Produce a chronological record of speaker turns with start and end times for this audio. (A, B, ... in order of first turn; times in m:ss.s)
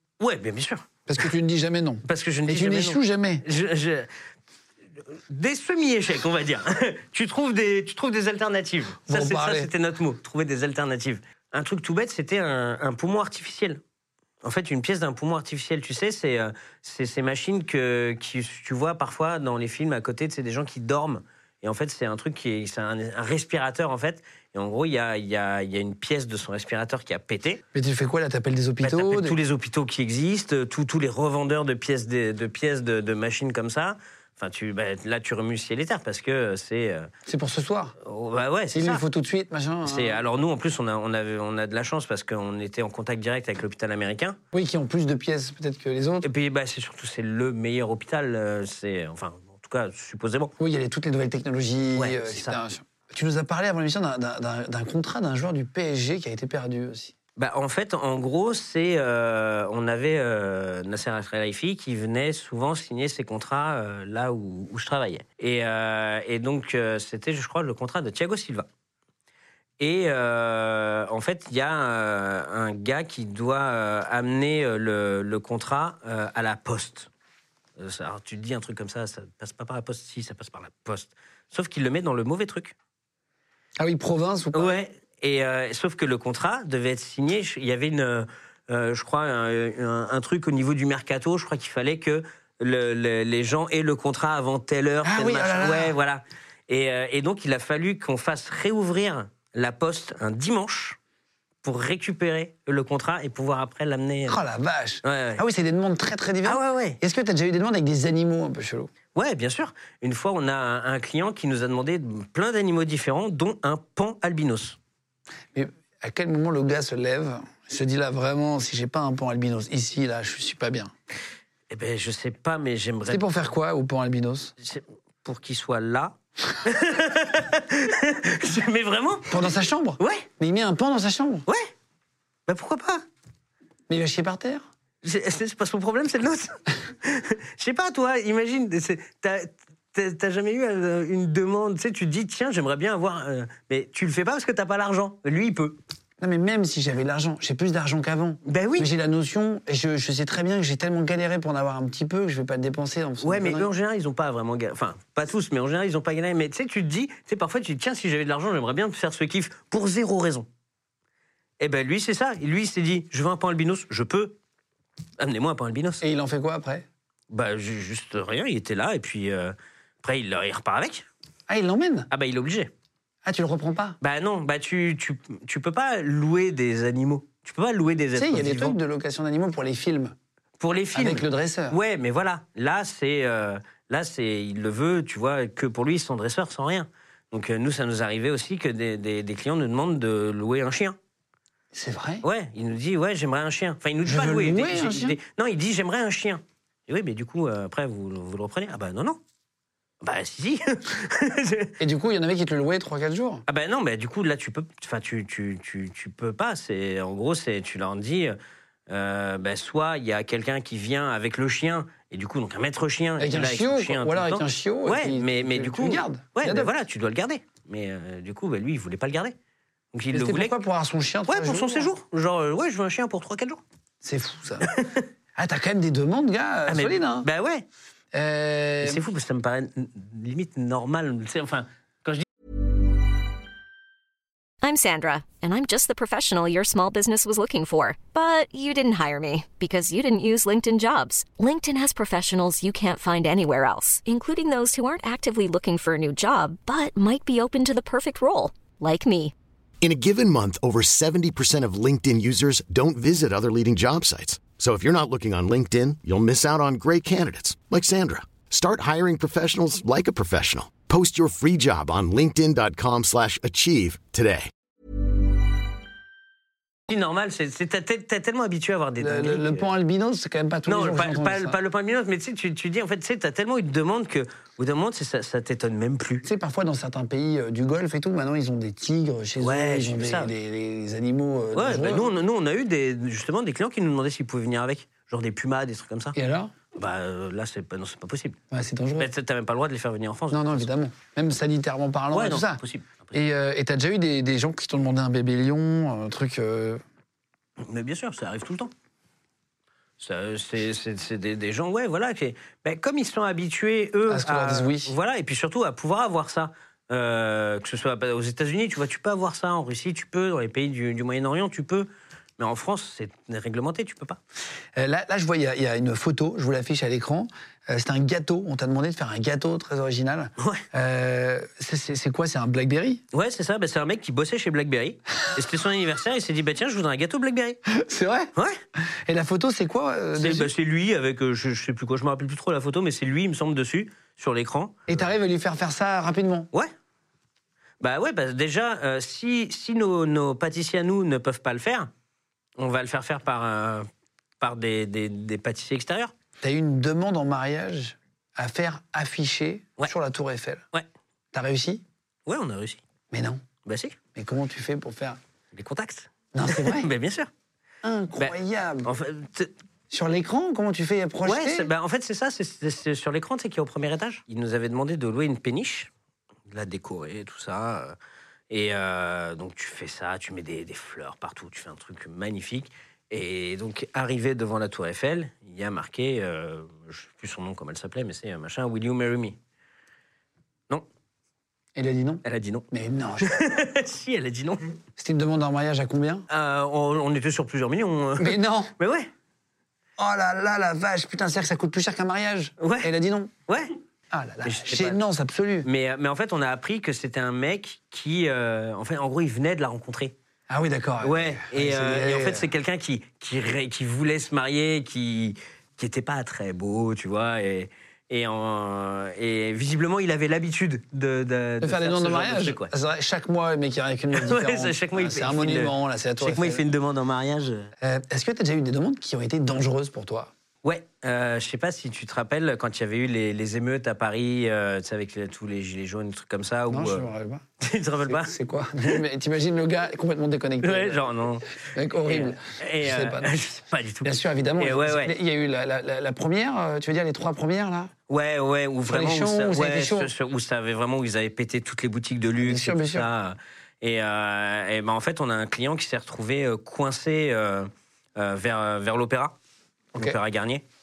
0:00.2-0:01.2 A
0:01.1-0:03.4 B
0:02.0-0:04.1 A
0:05.3-0:13.8 A
0:09.1-0:09.7 B
0:14.4-0:27.6 A
0:27.7-0:29.4 B
0:28.8-0:37.1 A
0:37.2-0:37.9 B
0:38.0-0:39.0 A
0:38.7-0:40.2 B
0:39.8-0:44.4 A
0:44.5-0:46.3 B
0:46.2-0:50.5 A
0:50.6-0:57.1 B
0:51.9-0:52.6 A
0:57.4-1:08.7 A
1:09.8-1:17.1 A
1:17.8-1:22.7 A
1:23.8-1:24.8 B
1:24.5-1:41.0 A
1:35.0-1:35.9 B
1:41.6-1:44.4 A
1:44.3-1:48.9 B
1:45.0-1:45.4 A
1:46.4-1:47.0 A
1:49.1-1:54.8 A
1:55.5-2:00.9 B
2:01.7-2:03.3 A
2:03.1-2:04.5 B
2:04.6-2:09.5 A
2:09.3-2:11.5 B
2:10.0-2:10.3 A
2:12.5-2:13.0 A
2:13.9-2:14.7 B
2:15.0-2:25.8 A
2:26.2-2:33.7 B
2:28.4-2:28.9 A
2:33.2-2:40.5 A
2:41.6-2:44.4 A
2:45.2-2:46.0 A
2:46.0-2:46.8 B
2:47.3-2:51.0 A
2:51.5-2:52.1 B
2:52.1-2:52.7 A
2:53.2-2:54.0 B
2:54.0-2:58.8 A
2:58.2-3:00.1 B
3:00.6-3:11.0 A
3:00.9-3:01.8 B
3:11.7-3:12.2 B
3:12.2-3:19.2 A
3:14.0-3:15.2 B
3:20.0-3:21.7 A
3:21.8-3:23.4 B
3:23.5-3:28.4 A
3:28.9-3:39.3 A
3:33.2-3:36.7 B
3:39.9-3:40.5 A
3:40.1-3:41.9 B
3:41.3-3:43.6 A
3:44.0-3:44.7 B
3:44.6-3:45.0 A
3:45.4-3:47.3 B
3:46.7-3:47.6 A
3:48.1-3:49.0 B
3:48.8-3:52.2 A
3:54.6-4:09.3 C
4:09.8-4:24.5 D
4:26.9-4:29.7 A
4:29.0-4:31.6 B
4:30.6-4:36.2 A
4:36.2-4:42.1 B
4:39.4-4:40.3 A
4:41.5-4:46.2 A
4:46.1-4:46.5 B
4:46.7-4:48.4 A
4:48.5-4:49.1 B
4:49.0-4:50.7 A
4:50.3-4:52.6 B
4:52.1-4:53.2 A
4:53.1-4:56.8 B
4:57.6-4:58.7 A
5:00.0-5:14.2 A
5:04.1-5:04.9 B
5:14.8-5:23.0 B
5:20.4-5:20.6 A
5:23.1-5:27.6 A
5:27.7-5:28.3 B
5:28.4-5:28.6 A
5:29.1-5:30.5 B
5:30.2-5:35.0 A
5:34.9-5:36.5 B
5:37.8-5:41.9 A
5:42.6-5:43.9 A
5:44.4-5:46.1 A
5:46.4-5:50.6 B
5:51.3-5:51.8 B
5:52.2-5:52.8 A
5:53.1-5:53.4 B
5:53.6-5:54.0 A
5:54.1-5:55.2 B
5:55.5-5:57.3 A
5:56.3-5:56.9 B
5:57.8-5:58.9 B
5:58.2-5:59.5 A
5:59.9-6:01.7 B
6:01.2-6:05.9 A
6:06.5-6:07.9 A
6:08.5-6:19.4 A
6:21.8-6:23.4 B
6:22.2-6:22.7 A
6:23.2-6:24.8 A
6:25.0-6:26.2 B
6:26.3-6:29.1 A
6:28.2-6:28.7 B
6:30.0-6:33.3 B
6:32.6-6:32.9 A
6:33.5-6:33.7 A
6:34.1-6:35.7 B
6:34.4-6:35.0 A
6:35.6-6:40.1 A
6:40.5-6:42.5 B
6:41.0-6:52.7 A
6:51.6-6:56.6 B
6:54.1-6:57.7 A
6:57.8-7:00.3 B
7:00.6-7:07.1 A
7:06.7-7:07.4 B
7:07.6-7:08.3 A
7:08.0-7:11.0 B
7:10.6-7:15.2 A
7:11.7-7:13.3 B
7:14.0-7:17.9 B
7:18.1-7:29.3 A
7:18.9-7:20.1 B
7:22.4-7:23.1 B
7:29.9-7:30.6 A